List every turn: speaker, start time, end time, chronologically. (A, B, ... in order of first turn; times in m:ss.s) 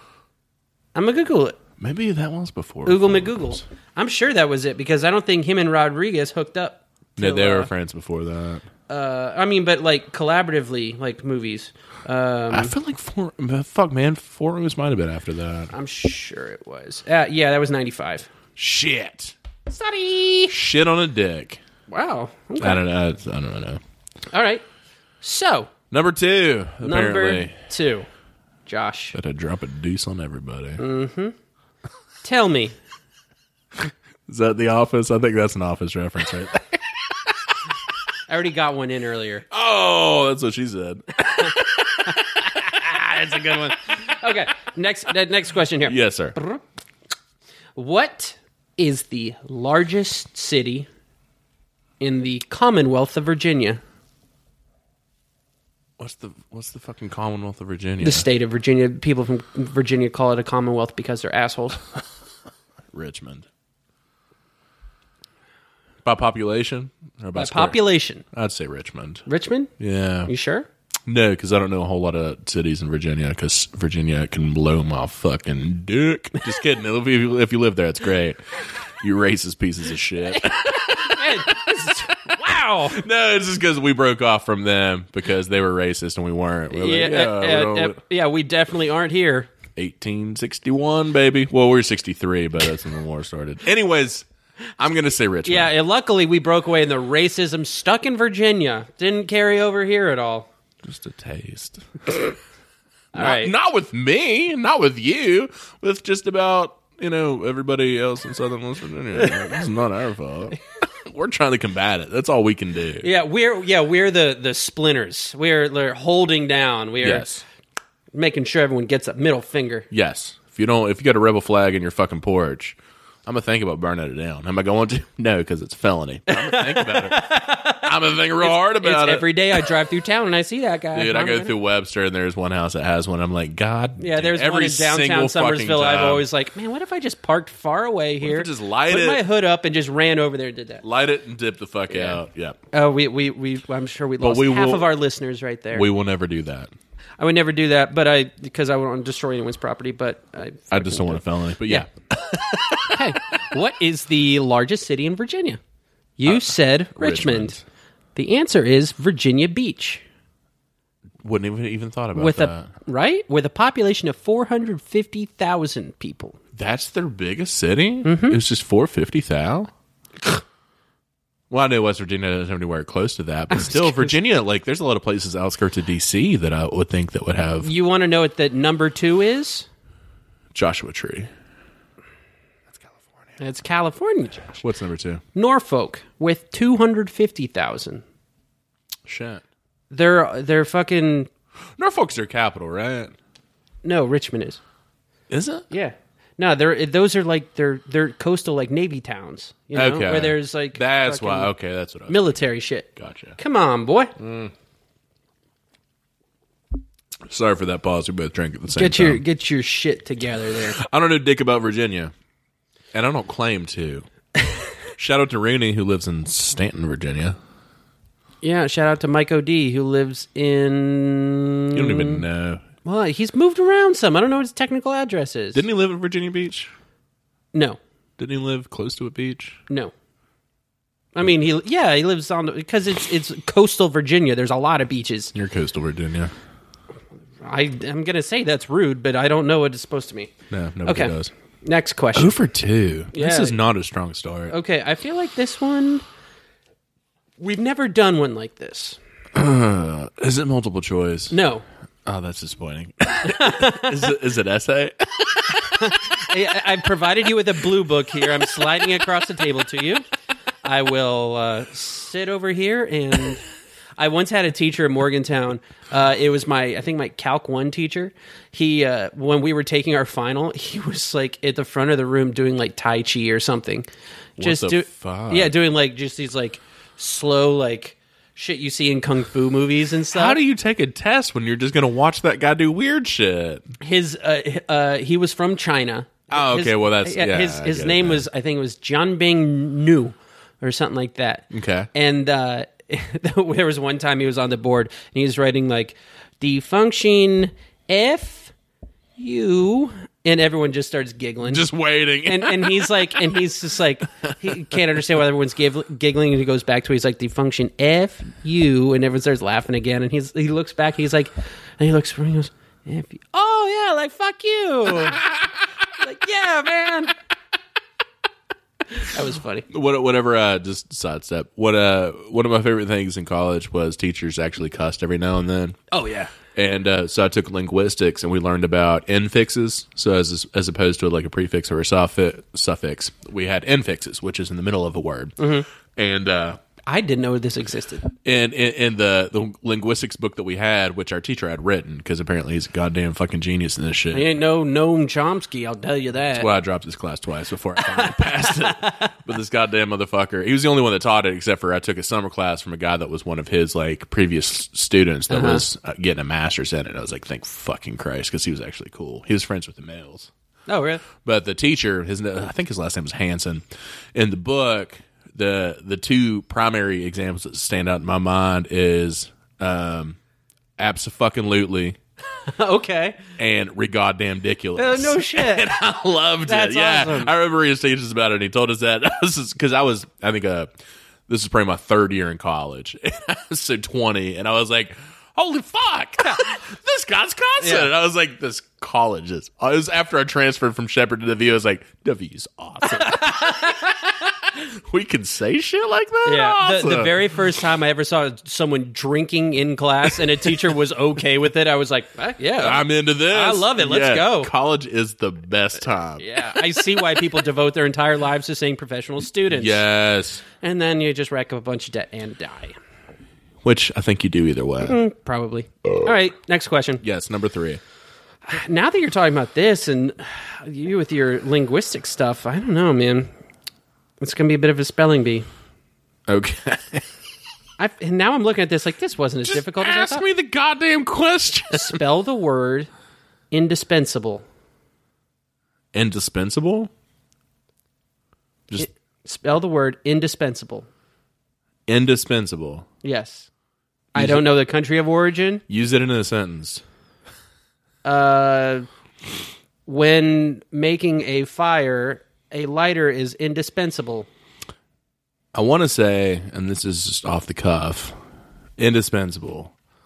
0:00.9-0:01.6 A
0:01.8-0:03.6 B
0:02.8-0:07.7 A
0:07.2-0:08.6 B
0:08.9-0:12.7 A
0:12.5-0:15.7 B
0:15.7-0:18.3 A
0:18.6-0:19.3 B
0:19.7-0:20.5 A
0:20.5-0:21.6 B
0:21.9-0:22.8 A
0:22.6-0:23.8 B
0:24.3-0:24.6 A
0:25.2-0:25.7 A
0:25.9-0:27.6 B
0:26.8-0:28.1 A
0:28.6-0:29.1 A
0:29.1-0:30.8 B
0:30.8-0:31.3 A
0:32.2-0:32.7 A
0:34.3-0:37.5 B
0:38.3-0:39.4 A
0:39.5-0:43.2 B
0:41.4-0:46.6 A
0:45.8-0:46.4 B
0:47.8-0:50.9 A
0:52.0-0:53.8 A
0:56.0-0:58.3 B
0:58.0-1:01.8 A
1:02.9-1:03.5 B
1:06.0-1:09.2 B
1:07.3-1:08.2 A
1:09.3-1:09.7 A
1:09.8-1:10.3 B
1:10.2-1:10.7 A
1:11.1-1:21.6 B
1:20.3-1:23.0 A
1:22.9-1:28.0 B
1:26.7-1:29.5 A
1:29.8-1:34.2 B
1:34.8-1:35.7 B
1:35.4-1:40.5 A
1:40.8-1:42.3 B
1:43.1-1:43.5 A
1:43.1-1:53.1 B
1:53.0-1:57.3 A
1:57.0-1:57.4 B
1:58.1-1:59.9 A
1:59.9-2:09.6 B
2:06.3-2:11.5 A
2:10.9-2:16.3 B
2:14.0-2:20.8 A
2:18.2-2:19.2 B
2:20.8-2:22.6 B
2:21.9-2:22.2 A
2:22.7-2:25.9 A
2:24.2-2:24.9 B
2:25.7-2:26.7 B
2:27.2-2:31.9 A
2:30.7-2:33.1 B
2:32.8-2:35.6 A
2:36.2-2:37.6 A
2:36.2-2:37.6 B
2:38.1-2:40.0 A
2:41.2-2:42.7 B
2:42.1-2:46.4 A
2:46.5-2:49.7 B
2:48.0-2:48.4 A
2:51.5-2:57.7 B
2:53.5-2:54.1 A
2:57.6-2:59.7 A
3:00.5-3:01.3 B
3:03.4-3:04.6 A
3:04.5-3:05.2 B
3:05.3-3:08.0 A
3:09.0-3:09.4 B
3:09.9-3:11.3 A
3:11.8-3:13.2 B
3:13.8-3:14.6 A
3:15.3-3:15.7 B
3:15.7-3:21.5 A
3:19.7-3:22.3 B
3:22.1-3:24.1 A
3:23.0-3:23.4 B
3:24.2-3:24.5 B
3:27.3-3:29.2 B
3:28.7-3:30.8 A
3:30.7-3:32.1 B
3:32.9-3:34.1 B
3:35.0-3:37.4 B
3:38.4-3:42.2 A
3:41.7-3:42.6 B
3:42.8-3:45.6 A
3:45.5-3:46.7 B
3:47.5-3:47.8 A
3:48.2-3:49.6 B
3:51.1-3:55.3 A
3:55.3-3:56.3 B
3:57.4-4:00.3 A
4:00.5-4:01.3 B
4:00.8-4:02.4 A
4:02.1-4:04.6 B
4:03.1-4:03.6 A
4:04.5-4:06.0 A
4:07.4-4:09.0 A
4:09.3-4:11.3 B
4:11.3-4:11.6 A
4:12.0-4:15.9 B
4:13.2-4:14.0 A
4:15.7-4:20.0 A
4:20.6-4:23.4 A
4:24.0-4:33.8 A
4:34.4-4:35.5 B
4:34.4-4:40.4 A
4:40.1-4:43.6 B
4:43.8-4:58.5 A
4:46.3-4:48.2 B
4:51.5-4:51.9 B
4:59.2-5:01.6 A
5:01.4-5:03.2 B
5:02.2-5:15.2 A
5:14.9-5:15.5 B
5:16.0-5:17.1 A
5:18.9-5:19.7 A
5:19.7-5:25.8 B
5:25.9-5:26.3 A
5:26.5-5:36.6 B
5:35.4-5:35.7 A
5:36.9-5:38.1 A
5:38.2-5:44.3 B
5:44.1-5:46.5 A
5:46.3-6:00.3 B
5:47.8-5:49.1 A
5:55.3-5:55.6 A
6:00.7-6:01.0 A
6:01.2-6:10.2 B
6:10.8-6:12.0 B
6:12.5-6:13.2 A
6:13.4-6:20.7 B
6:14.8-6:15.7 A
6:16.4-6:17.3 A
6:21.3-6:33.8 B
6:27.6-6:27.9 A
6:32.8-6:34.1 A
6:34.4-6:37.1 B
6:36.2-6:44.5 A
6:42.6-6:46.6 B
6:46.2-6:49.8 A
6:49.5-6:50.4 B
6:50.6-6:52.7 A
6:53.6-6:55.0 B
6:54.8-6:57.0 A
6:57.0-6:57.8 B
6:58.5-7:03.3 A
7:04.2-7:05.4 A
7:06.3-7:07.1 B
7:07.8-7:10.2 A
7:09.4-7:12.0 B
7:11.7-7:12.9 A
7:13.5-7:14.4 A
7:15.9-7:16.9 B
7:18.8-7:20.9 A
7:21.9-7:22.8 B
7:23.0-7:23.5 A
7:24.1-7:25.6 A
7:24.1-7:24.5 B
7:25.7-7:26.8 B
7:28.0-7:28.8 A
7:29.8-7:34.3 A
7:35.5-7:38.2 B
7:38.8-7:39.7 B